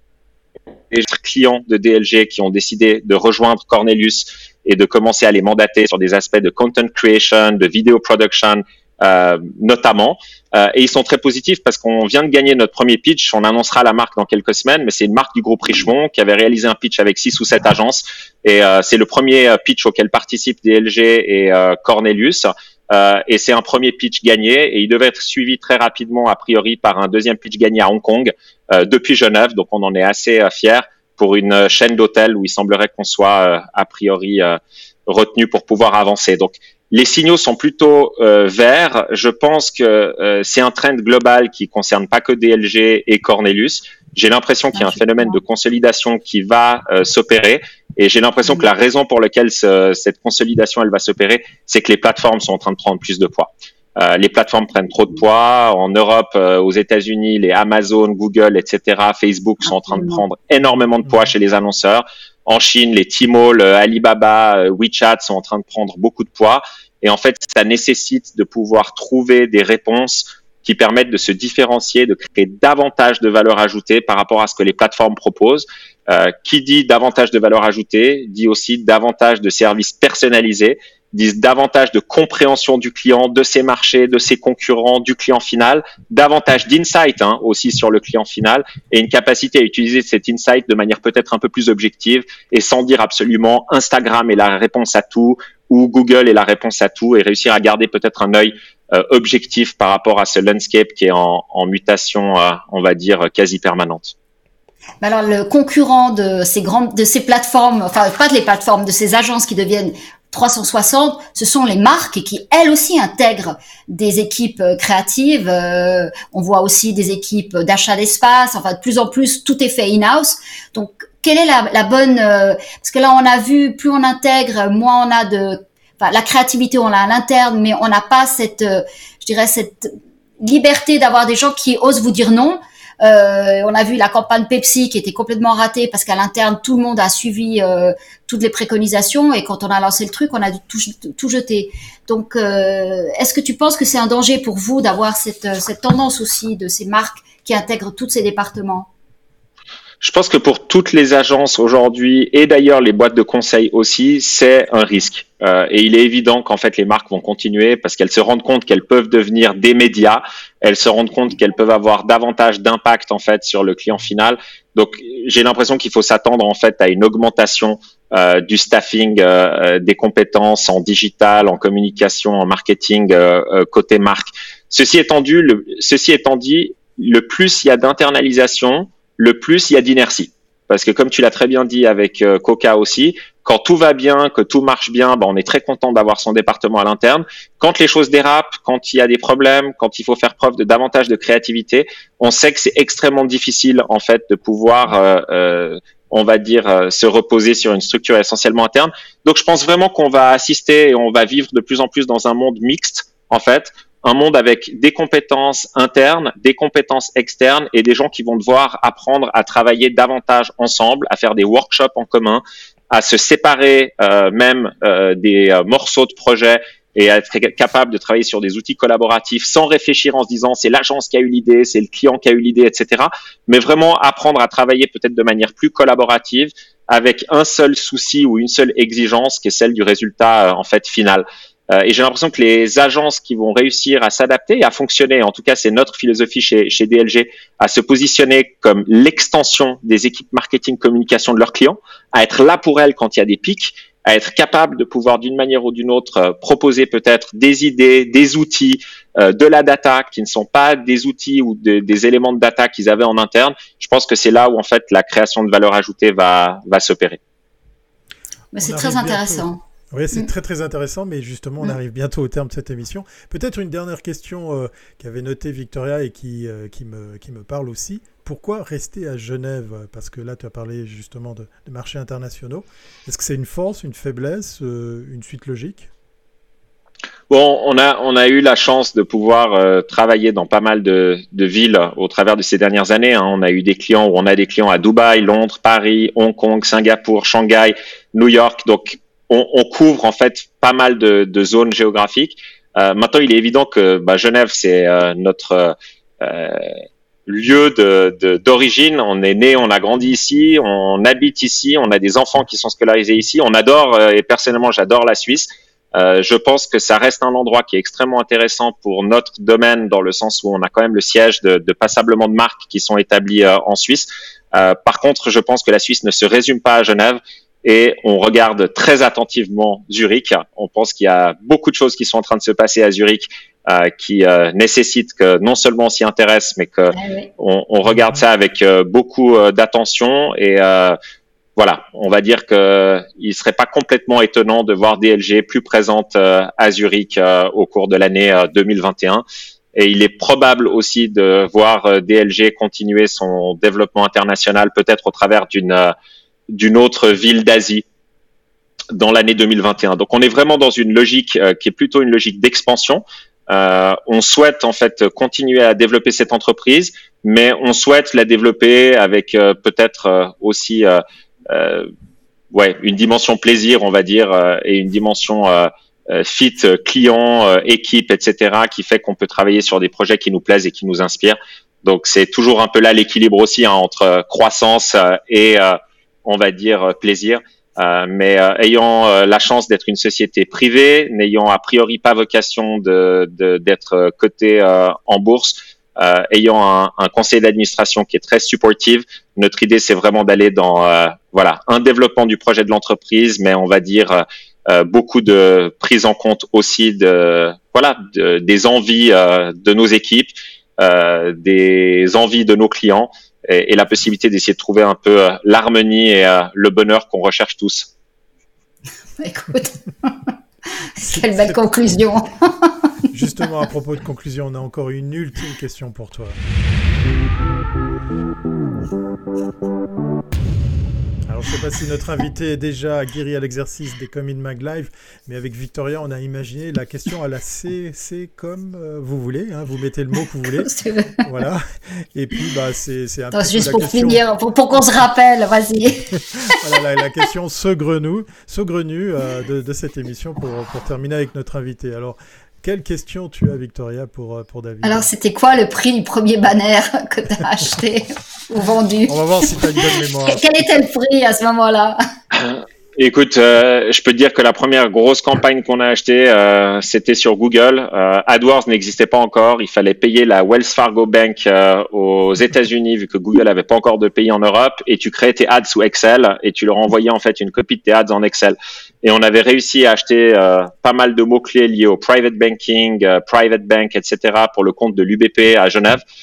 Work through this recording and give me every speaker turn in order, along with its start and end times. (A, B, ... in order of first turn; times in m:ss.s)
0:00.9-1:44.1 A
0:44.8-0:45.3 B
0:59.8-1:00.2 B
1:45.0-2:28.9 B
2:30.0-4:17.2 A
4:18.5-4:19.6 B
4:18.6-4:35.9 C
4:37.3-5:31.0 A
5:26.9-5:27.3 B
5:31.6-5:45.9 A
5:46.5-5:47.9 A
5:48.9-6:01.9 A
6:02.5-6:47.9 A
6:49.2-6:50.2 B
6:50.9-6:52.9 B
6:51.0-6:51.6 C
6:53.1-6:56.4 C
7:01.3-7:10.7 C
7:10.6-7:11.2 B
7:11.2-7:14.2 C
7:13.3-7:16.1 B
7:16.1-7:25.1 C
7:24.8-7:32.0 B
7:29.1-7:30.7 C
7:32.3-7:56.0 A